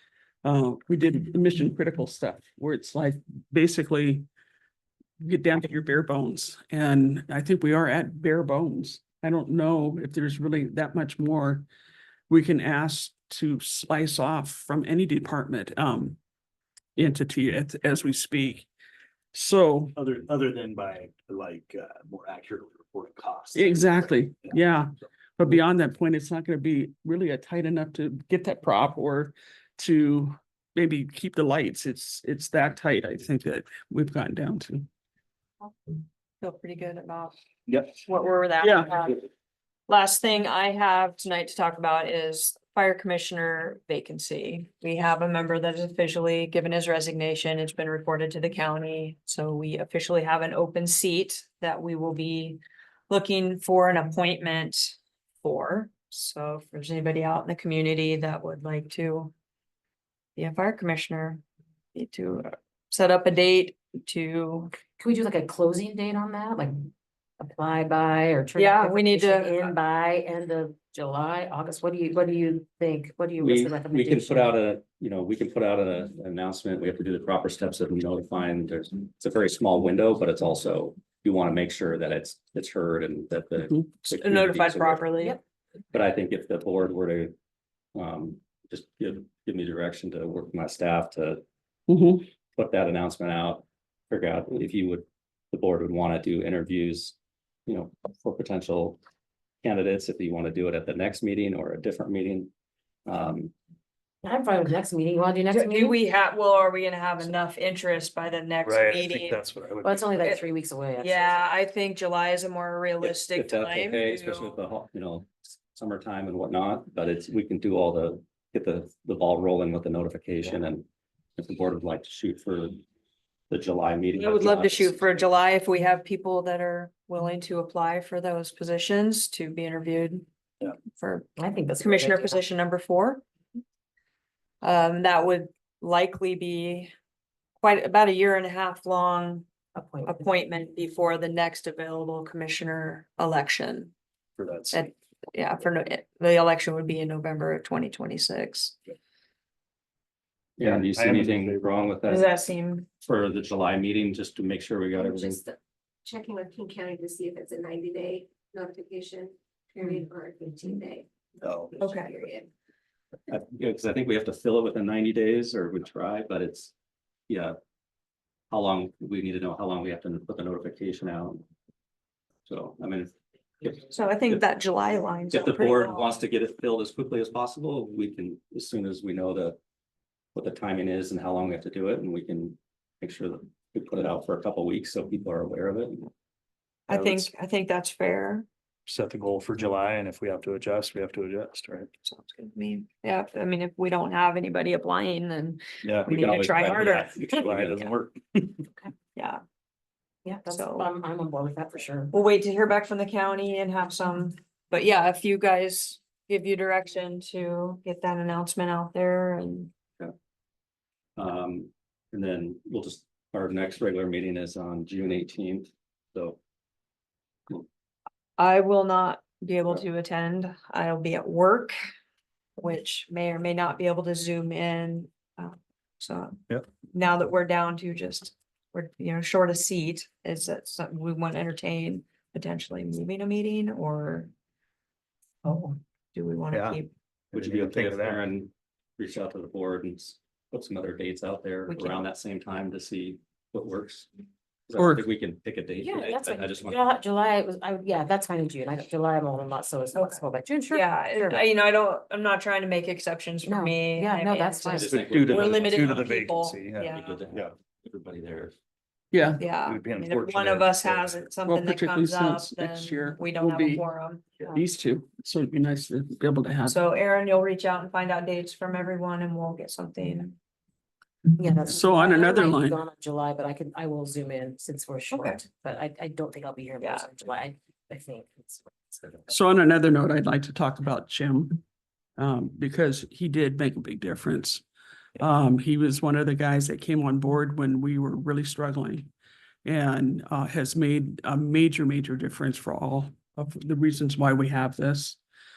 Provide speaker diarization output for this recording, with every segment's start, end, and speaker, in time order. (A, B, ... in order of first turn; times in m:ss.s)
0:00.4-0:04.2 A
0:05.2-0:11.6 A
0:12.3-0:16.2 A
0:17.0-0:18.7 A
0:19.3-0:19.9 A
0:19.9-0:24.5 B
0:23.5-0:34.9 A
0:36.4-0:37.4 C
0:37.7-0:38.0 B
0:38.0-0:39.2 C
0:38.6-0:38.9 A
0:39.9-0:59.3 C
1:00.4-1:01.4 C
1:01.9-1:04.7 C
1:05.0-1:14.6 D
1:08.6-1:09.8 C
1:13.4-1:25.1 E
1:24.1-1:25.4 C
1:25.9-1:27.3 E
1:27.9-1:31.4 E
1:31.9-1:32.2 A
1:32.5-1:37.1 E
1:37.7-1:39.0 E
1:39.6-1:42.5 E
1:43.0-1:43.5 E
1:44.2-1:46.0 D
1:45.5-1:49.4 C
1:48.6-1:50.2 B
1:49.8-1:51.4 D
1:51.0-1:54.5 C
1:53.0-2:02.8 E
2:03.5-2:05.2 E
2:04.2-2:10.2 C
2:10.8-2:11.3 C
2:11.4-2:12.4 D
2:11.8-2:13.2 C
2:14.6-2:16.9 C
2:17.6-2:19.5 C
2:19.7-2:20.4 D
2:20.0-2:23.9 C
2:24.4-2:24.9 B
2:24.7-2:28.8 C
2:30.6-2:32.3 E
2:30.6-2:31.9 B
2:32.1-2:32.8 C
2:33.0-2:35.4 E
2:34.9-2:42.5 F
2:41.4-2:41.8 B
2:41.8-2:42.1 C
2:43.3-2:46.7 E
2:47.3-2:47.6 E
2:48.5-2:51.4 E
2:52.4-2:54.4 E
2:53.9-2:56.1 C
2:55.3-2:59.6 E
3:00.3-3:06.1 E
3:06.9-3:08.4 C
3:06.9-3:07.3 B
3:08.8-3:11.9 B
3:12.0-3:17.3 C
3:15.8-3:16.2 B
3:16.0-3:18.1 E
3:17.3-3:18.4 B
3:19.2-3:19.4 C
3:20.2-3:22.1 D
3:20.5-3:20.9 C
3:22.1-3:29.7 C
3:31.2-3:36.4 E
3:38.4-3:41.7 C
3:42.6-3:46.4 C
3:46.9-3:54.3 C
3:55.4-3:56.9 C
3:56.5-3:56.8 B
3:57.3-3:58.2 B
3:57.3-4:04.1 E
4:01.7-4:02.0 C
4:04.7-4:06.8 E
4:04.8-4:05.0 A
4:05.8-4:11.4 D
4:10.0-4:17.1 C
4:13.4-4:15.1 D
4:14.8-4:16.2 E
4:14.9-4:17.5 B
4:16.9-4:18.6 E
4:19.1-4:19.5 A
4:19.4-4:24.2 C
4:19.6-4:21.3 B
4:21.5-4:23.8 A
4:24.5-4:26.8 A
4:26.6-4:30.4 C
4:31.4-4:39.3 D
4:31.6-4:32.8 A
4:35.1-4:35.4 C
4:36.8-4:37.1 C
4:39.3-4:41.6 A
4:42.2-4:44.6 A
4:45.2-4:49.1 A
4:49.6-4:55.2 A